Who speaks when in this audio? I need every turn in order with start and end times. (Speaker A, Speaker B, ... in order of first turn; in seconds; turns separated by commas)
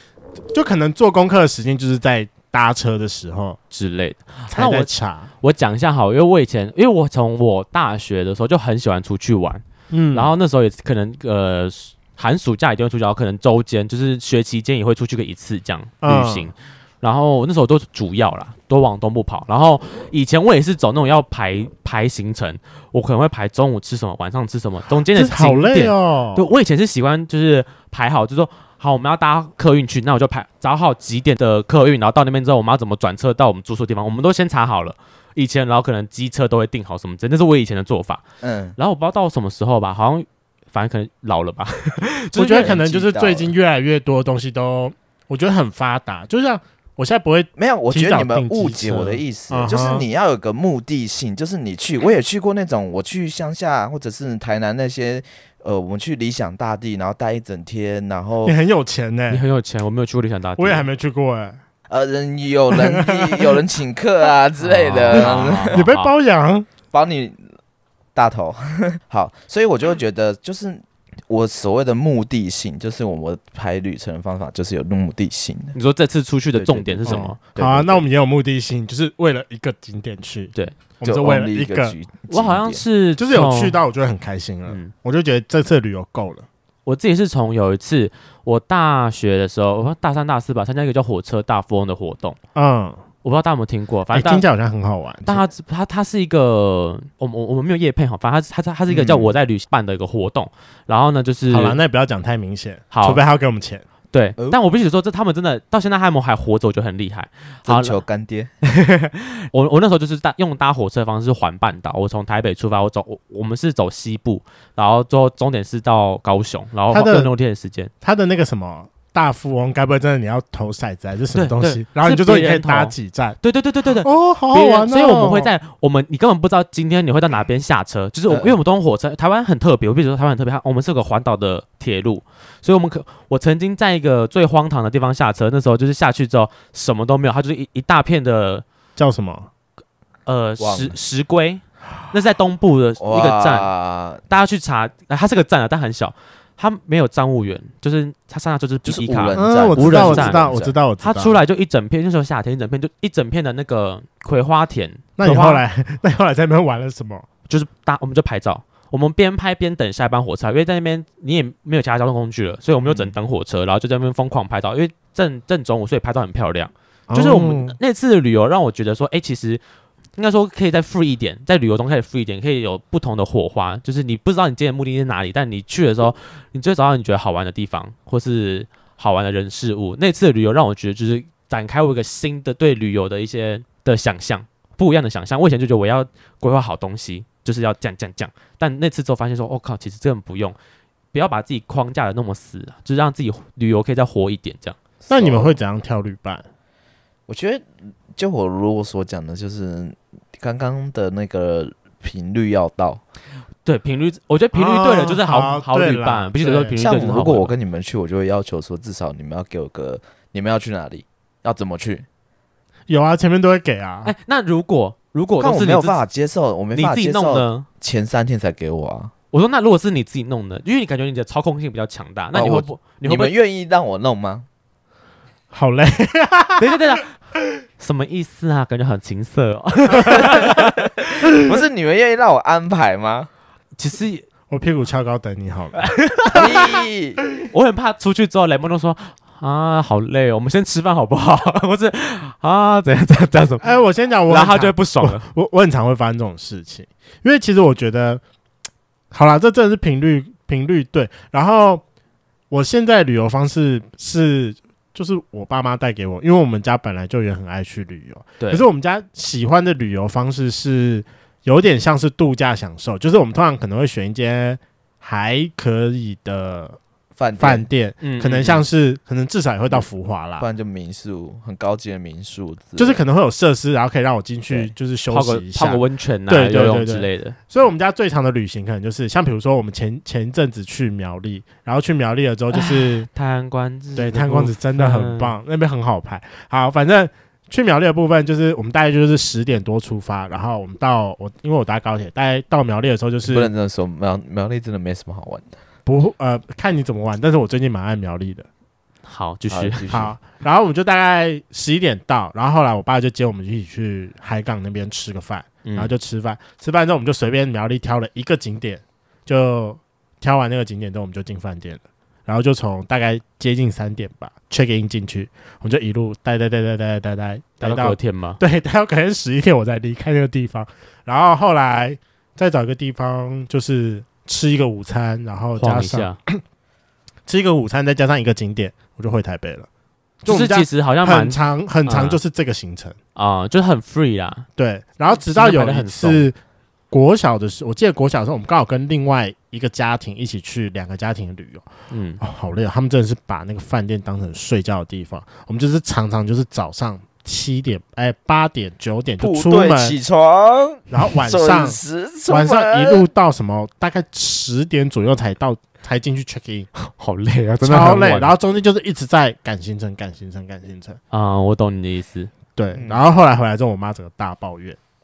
Speaker A: 0.5-3.6, Speaker B: 3.7-4.9, Speaker A: 4.5-5.3, Speaker B: 5.4-38.2, Speaker A: 9.9-10.3, Speaker A: 16.0-16.5, Speaker A: 25.1-26.4, Speaker C: 38.4-38.8, Speaker B: 38.8-42.8, Speaker A: 42.4-50.1, Speaker C: 42.5-43.5, Speaker C: 47.6-58.6, Speaker A: 58.4-59.4, Speaker B: 59.3-60.9, Speaker A: 60.6-61.6, Speaker C: 61.9-65.9, Speaker A: 62.7-63.6, Speaker B: 64.6-66.1, Speaker A: 65.1-66.7, Speaker C: 66.9-67.5, Speaker C: 68.2-75.8, Speaker B: 75.7-77.4, Speaker C: 76.5-78.0, Speaker A: 77.1-82.0, Speaker C: 81.0-82.8, Speaker B: 82.3-83.8, Speaker A: 83.2-86.5, Speaker B: 84.7-84.9, Speaker B: 86.9-92.4, Speaker A: 92.5-93.0, Speaker B: 93.2-94.5, Speaker A: 94.1-95.4, Speaker B: 95.3-101.8, Speaker C: 98.9-99.3, Speaker A: 101.5-103.8, Speaker B: 102.9-103.2, Speaker B: 104.1-108.0, Speaker C: 107.7-108.5, Speaker B: 108.7-117.9, Speaker A: 116.9-117.3, Speaker A: 118.0-123.4, Speaker B: 121.3-138.6, Speaker A: 124.0-125.5, Speaker C: 128.3-128.6, Speaker A: 139.0-139.5, Speaker B: 140.3-143.7, Speaker C: 140.6-141.0, Speaker C: 143.0-144.2, Speaker B: 144.3-150.4, Speaker C: 148.9-150.8, Speaker A: 149.3-151.4, Speaker B: 151.0-155.6, Speaker A: 155.2-157.3, Speaker B: 157.5-169.6, Speaker A: 167.1-167.8, Speaker B: 170.2-190.6, Speaker B: 191.1-194.8, Speaker C: 195.0-195.6, Speaker A: 195.1-196.5, Speaker C: 197.3-203.0, Speaker B: 203.7-207.5, Speaker A: 204.5-206.8, Speaker C: 206.8-212.1, Speaker A: 212.9-214.1, Speaker B: 214.0-216.0, Speaker C: 215.4-219.1, Speaker B: 216.8-217.7, Speaker B: 219.3-223.3, Speaker C: 222.3-224.5, Speaker A: 225.5-226.7, Speaker B: 226.6-227.2, Speaker B: 227.8-230.8, Speaker C: 230.1-233.3, Speaker B: 233.8-234.3, Speaker A: 234.5-236.7, Speaker B: 235.9-236.4, Speaker C: 236.3-237.2, Speaker B: 237.5-243.7, Speaker A: 243.6-248.2, Speaker B: 244.3-245.3, Speaker A: 249.1-251.8, Speaker A: 252.5-266.8, Speaker B: 258.4-258.6, Speaker C: 267.2-267.7, Speaker A: 267.4-270.5, Speaker B: 268.0-268.6, Speaker C: 270.4-273.0, Speaker A: 272.8-283.1, Speaker C: 274.5-274.7, Speaker B: 275.1-277.4, Speaker B: 282.5-285.4, Speaker A: 284.0-293.5, Speaker C: 293.3-295.5, Speaker A: 295.9-298.5, Speaker B: 299.1-300.0, Speaker C: 299.5-300.2, Speaker A: 299.9-326.4, Speaker B: 305.6-305.9, Speaker B: 317.6-318.4, Speaker B: 325.6-326.2, Speaker A: 327.3-329.7, Speaker A: 330.2-333.0, Speaker B: 330.3-332.2, Speaker B: 333.1-334.5, Speaker A: 334.6-336.4, Speaker B: 335.1-336.3, Speaker A: 336.9-341.7, Speaker B: 341.9-342.2, Speaker A: 342.2-350.0, Speaker C: 349.2-353.1, Speaker A: 350.9-356.7, Speaker B: 356.8-358.3, Speaker A: 357.6-361.0, Speaker B: 361.1-362.3, Speaker A: 362.6-364.8, Speaker C: 362.7-363.0